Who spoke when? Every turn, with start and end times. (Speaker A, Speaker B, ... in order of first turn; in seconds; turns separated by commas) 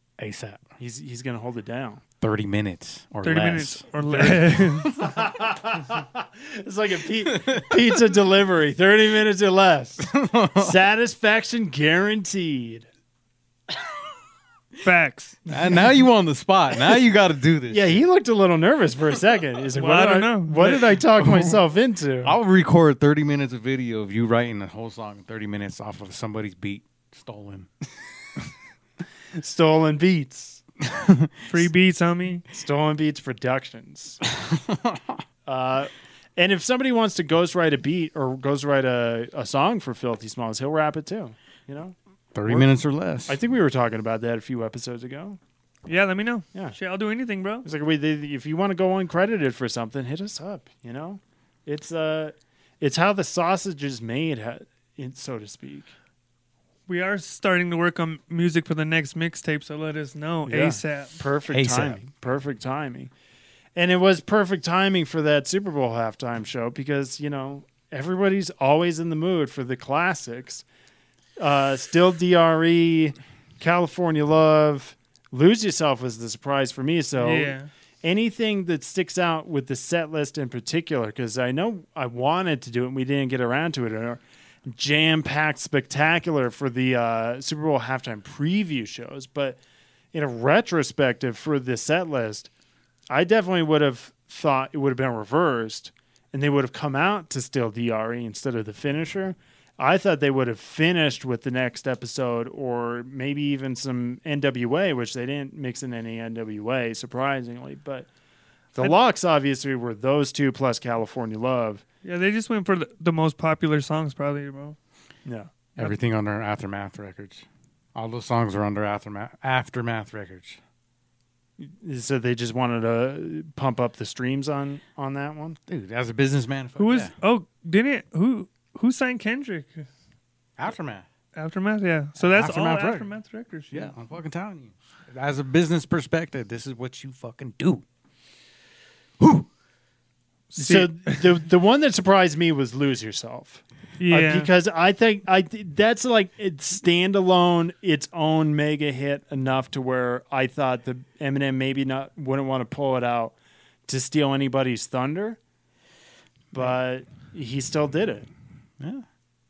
Speaker A: 0.2-0.7, Speaker B: 0.8-2.0, Speaker A: 2.2-5.1, Speaker C: 3.2-4.9, Speaker B: 4.1-12.9, Speaker A: 7.3-8.0, Speaker A: 10.1-10.8, Speaker C: 14.8-15.4, Speaker A: 15.5-18.0, Speaker B: 17.7-22.4, Speaker C: 19.7-20.9, Speaker A: 21.2-21.6, Speaker A: 22.2-27.7, Speaker B: 29.4-30.6, Speaker A: 30.8-31.6, Speaker C: 31.5-32.4, Speaker B: 32.5-34.2, Speaker A: 34.4-35.2, Speaker B: 35.5-41.9, Speaker A: 42.3-43.4, Speaker B: 42.5-42.8, Speaker B: 43.3-45.4, Speaker C: 45.9-47.6, Speaker B: 47.6-55.9, Speaker C: 56.9-61.2, Speaker B: 60.5-63.1, Speaker A: 61.5-62.0, Speaker B: 63.7-70.6, Speaker B: 71.4-89.6, Speaker C: 77.2-77.7, Speaker B: 90.1-92.5, Speaker B: 93.1-108.1, Speaker B: 108.7-111.8, Speaker C: 112.0-114.8, Speaker B: 115.2-115.5, Speaker A: 115.8-120.6, Speaker B: 121.6-125.6, Speaker A: 125.7-127.1, Speaker C: 126.8-129.9, Speaker A: 130.6-131.1, Speaker C: 131.3-133.9, Speaker A: 132.2-133.1, Speaker A: 133.7-137.8, Speaker A: 139.2-139.5, Speaker C: 140.5-141.2, Speaker B: 140.6-153.3, Speaker C: 144.0-144.5, Speaker B: 153.9-155.4, Speaker B: 156.5-158.3, Speaker A: 158.8-159.0